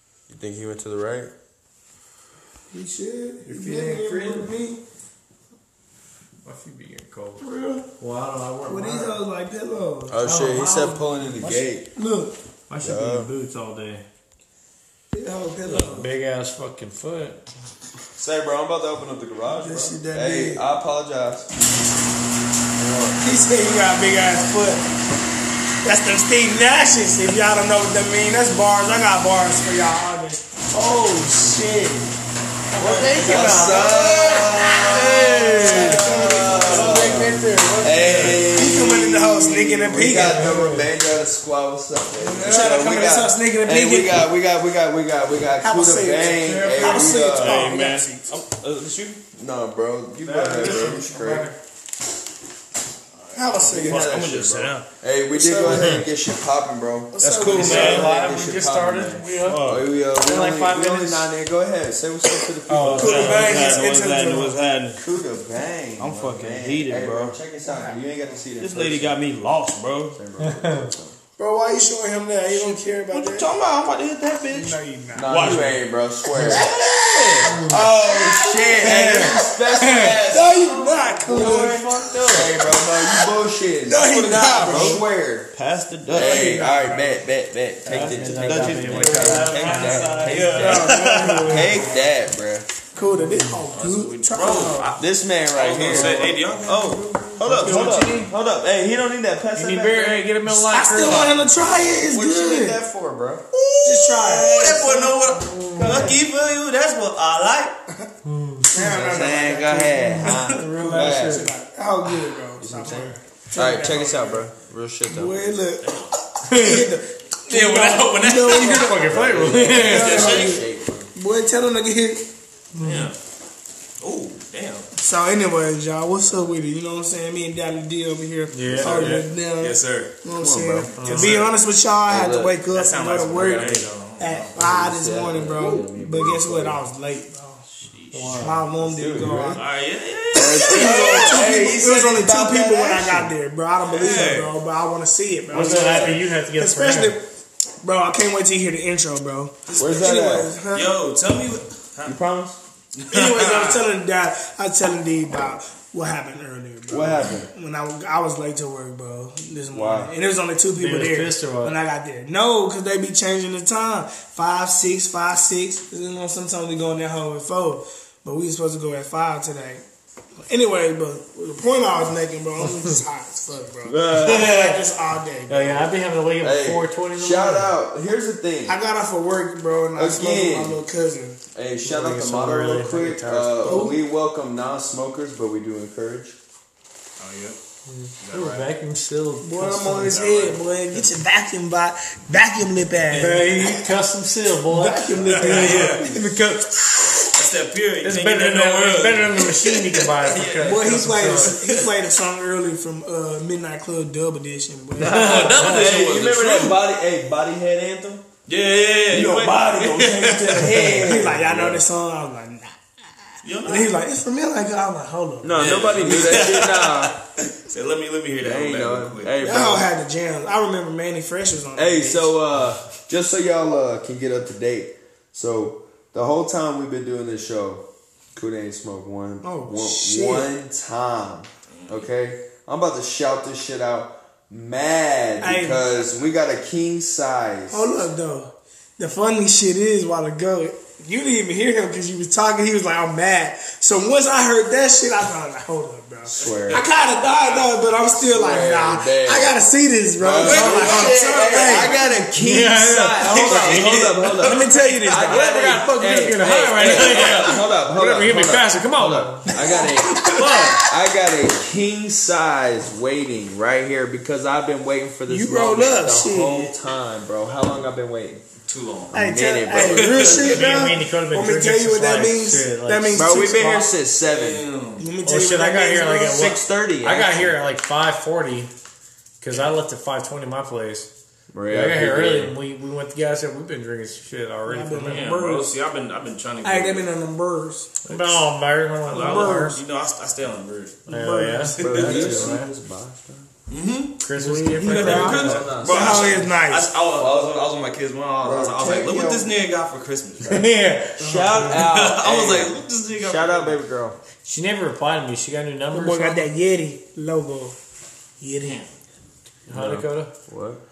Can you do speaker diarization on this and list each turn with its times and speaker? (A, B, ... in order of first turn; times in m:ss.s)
0:00.3-0:01.3 A
0:02.7-0:04.8 B
0:03.4-0:04.5 C
0:06.4-0:07.5 C
0:07.4-0:07.8 B
0:08.0-0:09.2 C
0:08.6-0:10.5 B
0:10.1-0:11.9 A
0:10.2-0:11.0 C
0:11.4-0:12.4 B
0:12.7-0:14.0 C
0:12.8-0:13.3 A
0:15.1-0:16.1 B
0:15.6-0:17.5 C
0:18.2-0:21.5 A
0:19.5-0:20.6 B
0:22.8-0:23.2 A
0:23.2-0:24.8 B
0:25.8-0:32.1 B
0:30.8-0:31.6 C
0:32.7-0:34.6 B
0:32.8-0:36.1 C
0:33.1-0:47.8 A
0:33.8-0:34.0 D
0:35.4-0:40.7 B
0:36.6-0:38.4 C
0:39.8-0:40.8 C
0:42.2-0:44.2 B
0:45.6-0:48.3 B
0:46.2-0:47.4 C
0:47.3-0:49.2 D
0:49.3-0:51.5 A
0:50.2-0:51.6 C
0:53.2-0:54.8 D
0:53.3-0:54.2 B
0:53.7-1:03.8 A
0:55.6-0:56.0 C
0:57.1-0:58.0 B
0:57.2-0:58.1 D
0:57.4-1:01.3 C
0:59.4-0:59.9 D
1:02.7-1:03.6 C
1:02.9-1:05.0 D
1:03.0-1:04.5 B
1:05.0-1:09.2 A
1:06.0-1:07.4 D
1:07.7-1:08.0 B
1:08.6-1:10.2 D
1:10.1-1:11.2 A
1:10.4-1:10.9 C
1:11.4-1:13.5 B
1:12.5-1:14.6 D
1:13.2-1:25.5 A
1:14.5-1:15.6 B
1:15.3-1:15.8 D
1:16.4-1:17.6 D
1:16.4-1:22.1 B
1:17.4-1:17.8 C
1:19.8-1:20.2 C
1:21.2-1:22.5 D
1:22.8-1:23.2 B
1:23.8-1:25.0 B
1:25.5-1:26.5 D
1:26.1-1:32.7 A
1:26.1-1:27.2 B
1:27.8-1:30.5 C
1:27.8-1:31.8 D
1:30.4-1:31.9 B
1:32.9-1:34.9 B
1:33.7-1:38.2 D
1:35.0-1:40.3 A
1:37.4-1:38.2 C
1:37.7-1:38.2 B
1:39.6-1:41.5 C
1:40.6-1:42.8 B
1:42.0-1:43.4 A
1:43.6-1:47.8 D
1:43.8-1:44.9 B
1:44.4-1:44.9 A
1:45.3-1:46.2 C
1:45.8-1:46.1 B
1:48.2-1:48.7 C
1:48.7-1:54.5 B
1:48.8-1:51.5 A
1:50.2-1:51.4 C
1:52.6-1:55.4 A
1:55.1-2:00.6 B
1:55.8-1:56.2 D
1:56.4-1:56.9 C
1:57.5-2:00.6 D
1:58.3-2:00.3 C
1:59.0-2:01.1 A
2:01.1-2:02.3 B
2:02.7-2:03.1 C
2:02.8-2:03.2 D
2:04.0-2:04.9 D
2:05.0-2:17.6 B
2:08.5-2:09.3 C
2:08.7-2:10.1 D
2:08.8-2:09.2 A
2:10.3-2:11.2 A
2:11.0-2:11.5 C
2:11.0-2:11.5 D
2:12.1-2:12.6 A
2:12.7-2:14.6 D
2:14.6-2:16.8 A
2:17.7-2:18.5 D
2:18.1-2:18.7 C
2:18.4-2:19.6 B
2:18.8-2:19.6 A
2:19.5-2:21.4 D
2:20.3-2:23.3 A
2:20.6-2:27.2 B
2:23.9-2:24.5 D
2:25.5-2:27.2 C
2:27.8-2:30.9 B
2:29.7-2:30.5 A
2:30.7-2:32.2 D
2:32.0-2:32.6 A
2:33.0-2:33.9 D
2:33.1-2:49.8 B
2:36.9-2:37.5 A
2:39.7-2:40.1 A
2:40.8-2:41.8 C
2:50.4-2:55.9 B
2:53.8-2:54.5 A
2:54.1-2:54.8 C
2:55.5-2:57.7 C
2:56.4-2:58.8 A
2:58.7-3:01.4 B
2:59.9-3:00.8 A
3:01.5-3:06.4 A
3:01.8-3:04.0 C
3:03.6-3:04.0 B
3:07.2-3:07.6 D
3:07.9-3:10.2 C
3:08.2-3:08.7 D
3:09.4-3:13.8 B
3:10.1-3:10.6 D
3:13.1-3:17.3 C
3:14.7-3:16.2 B
3:15.2-3:16.2 D
3:17.3-3:21.9 D
3:18.0-3:21.6 C
3:20.6-3:25.6 B
3:25.0-3:25.9 C
3:25.0-3:26.8 D
3:25.1-3:28.3 A
3:28.5-3:31.0 D
3:29.1-3:31.8 A
3:30.5-3:35.8 B
3:33.4-3:34.0 D
3:35.4-3:37.2 A
3:35.6-3:39.3 D
3:38.4-3:39.9 A
3:39.4-3:42.4 B
3:41.7-3:57.9 A
3:49.4-3:50.5 B
3:51.7-3:52.0 D
3:55.4-3:56.0 B
3:57.7-4:11.9 B
4:06.2-4:06.8 A
4:06.4-4:07.7 D
4:08.2-4:09.6 A
4:10.2-4:28.4 A
4:10.4-4:12.1 D
4:12.3-4:19.7 C
4:13.2-4:14.7 D
4:14.4-4:15.5 B
4:16.8-4:17.6 D
4:20.2-4:20.8 D
4:25.3-4:26.8 B
4:28.6-4:29.1 D
4:29.1-4:30.7 A
4:29.1-4:33.8 B
4:29.7-4:30.9 D
4:30.3-4:33.8 C
4:33.1-4:34.6 A
4:34.2-4:35.1 D
4:35.0-4:36.5 B
4:35.2-4:38.7 C
4:36.2-4:37.6 A
4:39.4-4:41.1 C
4:41.5-4:42.6 A
4:41.7-4:45.4 C
4:44.6-4:45.7 B
4:45.0-4:47.1 D
4:46.6-4:48.0 B
4:48.0-4:49.8 C
4:49.0-4:51.0 D
4:49.1-4:49.8 B
4:51.1-4:52.4 B
4:51.1-4:52.7 C
4:51.7-4:52.5 D
4:51.8-4:53.5 A
4:53.7-4:54.2 D
4:54.2-4:55.7 C
4:54.4-4:56.9 B
4:54.8-5:00.6 D
4:55.0-4:56.4 A
4:57.1-4:57.6 A
4:58.4-4:59.5 A
5:00.4-5:01.8 C
5:01.2-5:04.2 A
5:01.6-5:03.8 D
5:04.4-5:06.5 C
5:05.9-5:07.8 B
5:08.4-5:08.9 B
5:09.7-5:10.3 C
5:09.7-5:10.8 A